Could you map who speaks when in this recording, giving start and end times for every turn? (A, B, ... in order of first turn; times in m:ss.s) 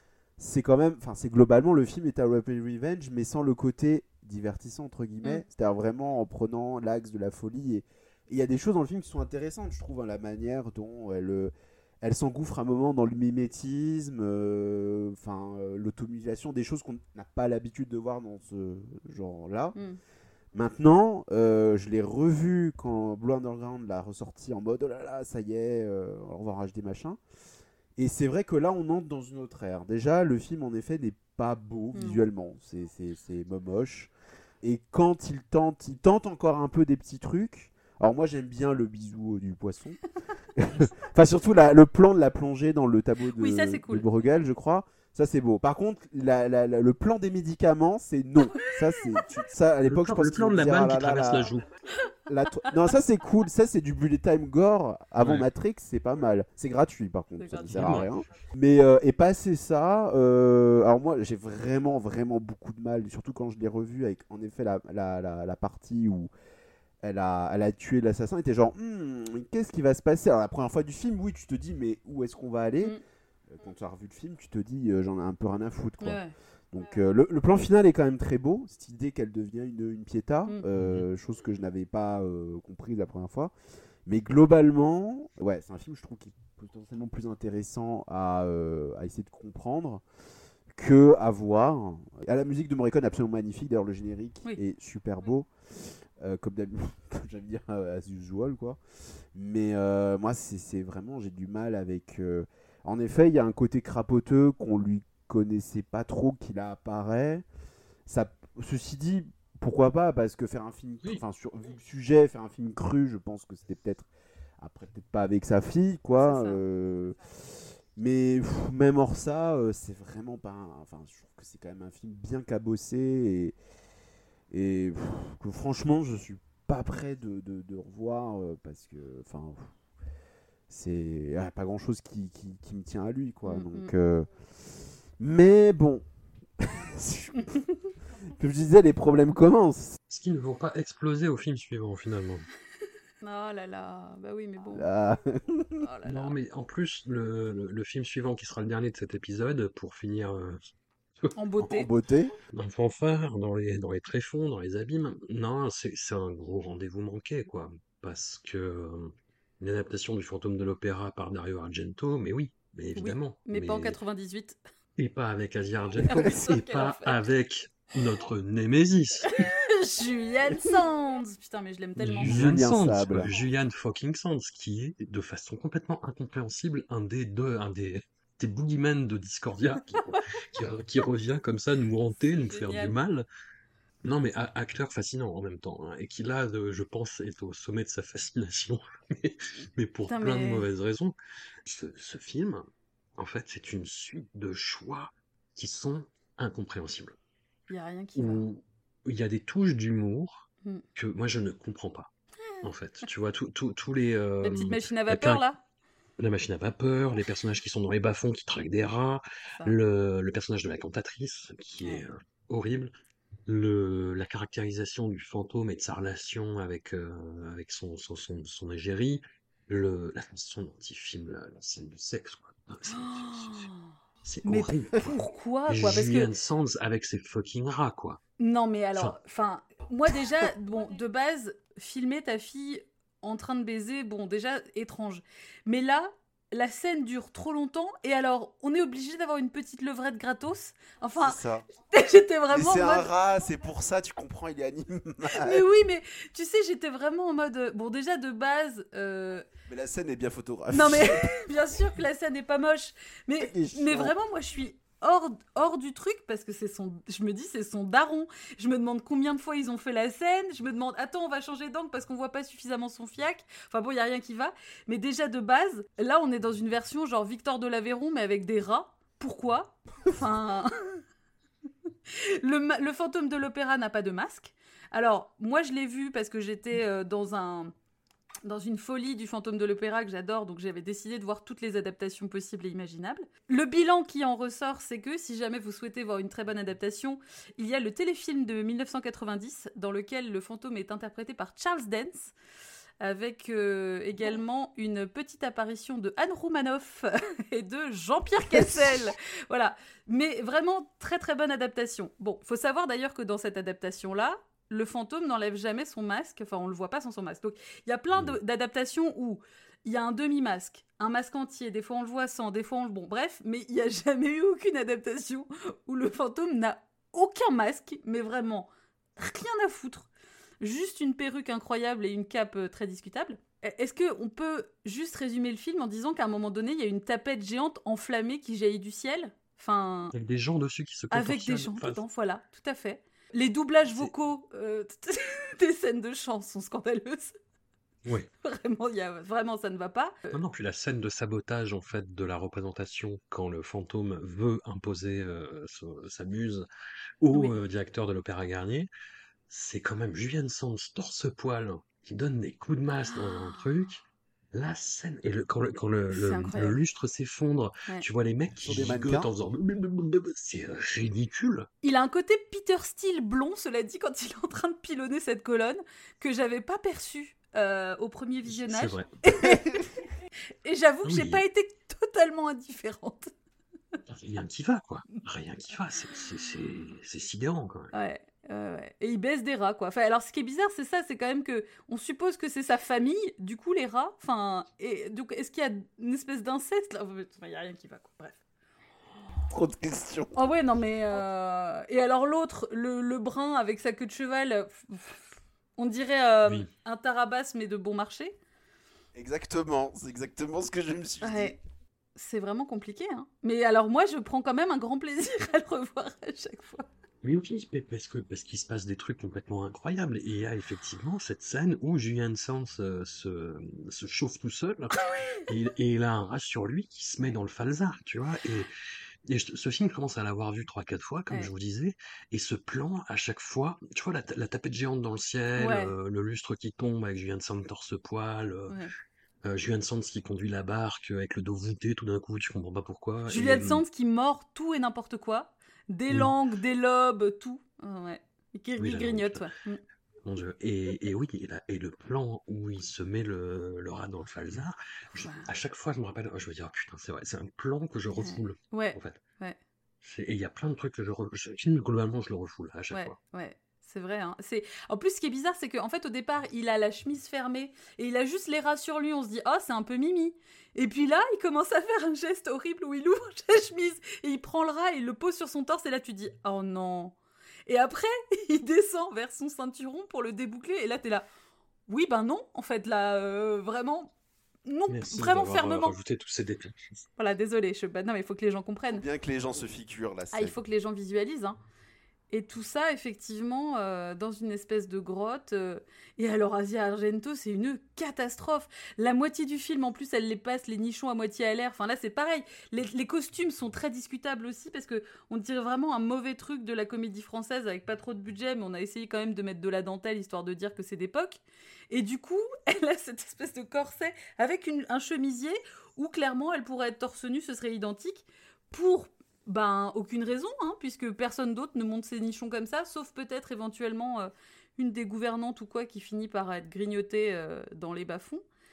0:00.4-0:19.8 A
0:20.5-0:27.2 A
0:28.0-0:40.0 A
0:31.9-0:32.2 B
0:40.6-0:51.5 A
0:43.4-0:44.1 B
0:48.5-0:49.0 B
0:49.9-0:51.7 C
0:52.3-1:06.3 A
0:57.4-0:58.0 B
0:57.7-0:58.1 C
1:07.0-1:13.0 A
1:13.5-1:16.2 A
1:16.0-1:16.3 B
1:16.7-1:23.5 A
1:20.8-1:21.0 C
1:24.1-1:30.0 A
1:30.7-1:35.5 A
1:36.2-1:38.8 A
1:39.3-1:47.4 A
1:48.1-2:03.6 A
1:56.2-1:56.6 B
2:04.5-2:09.7 A
2:10.7-2:14.3 A
2:13.5-2:13.9 B
2:15.2-2:16.0 A
2:16.6-2:17.6 A
2:18.3-2:20.0 A
2:20.1-2:22.5 C
2:23.2-2:24.9 B
2:24.7-2:25.8 A
2:25.8-2:26.3 B
2:26.0-2:30.6 C
2:31.4-2:31.9 B
2:31.6-2:32.3 A
2:32.5-2:44.0 C
2:43.0-2:44.6 B
2:45.0-2:49.3 C
2:46.1-2:47.2 B
2:49.2-2:52.4 B
2:52.0-3:03.3 C
2:52.2-2:53.3 A
3:00.0-3:00.2 B
3:02.4-3:02.9 B
3:04.0-3:17.2 C
3:10.1-3:10.7 B
3:17.7-3:18.4 B
3:18.2-3:22.1 C
3:22.5-3:23.1 B
3:22.6-3:25.4 C
3:24.4-3:25.6 B
3:26.2-3:32.9 C
3:33.5-3:43.7 C
3:42.9-3:43.9 B
3:44.2-3:48.2 C
3:44.4-3:46.3 B
3:48.4-4:03.1 B
4:01.2-4:01.6 A
4:02.5-4:05.6 A
4:05.3-4:09.5 B
4:09.7-4:11.4 A
4:10.7-4:31.0 B
4:13.4-4:14.1 A
4:32.1-4:37.7 B
4:38.4-4:52.3 B
4:53.0-5:20.1 B
4:58.5-4:59.0 A
5:20.6-5:30.1 B
5:30.1-5:32.0 C
5:31.1-5:37.3 B
5:38.0-5:38.3 C
5:38.4-5:40.4 B
5:40.3-5:46.7 C
5:47.2-5:48.9 C
5:47.3-5:47.6 B
5:49.5-5:54.0 C
5:53.2-5:53.6 B
5:54.5-6:01.7 C
5:56.1-5:56.8 B
5:58.6-5:59.3 A
6:01.8-6:09.8 B
6:08.5-6:09.1 C
6:10.6-6:13.3 B
6:11.0-6:11.4 C
6:14.1-6:17.9 C
6:17.9-6:28.4 B
6:29.5-6:30.4 A
6:30.4-6:35.2 B
6:35.8-6:38.4 B
6:39.2-6:41.6 A
6:41.2-6:41.6 B
6:42.2-6:46.9 B
6:47.2-6:58.7 C
6:59.3-7:08.8 C
7:05.6-7:05.9 B
7:09.4-7:13.8 C
7:13.3-7:19.8 B
7:18.8-7:19.5 C
7:20.2-7:29.2 C
7:25.2-7:25.5 B
7:28.2-7:29.6 B
7:30.0-7:33.2 C
7:32.9-7:47.2 B
7:47.7-7:51.3 B
7:51.9-7:54.1 B
7:54.7-7:56.0 B
7:54.9-7:57.0 C
7:57.2-7:59.0 B
7:58.9-8:00.6 A
8:00.3-8:01.6 B
8:02.3-8:38.4 B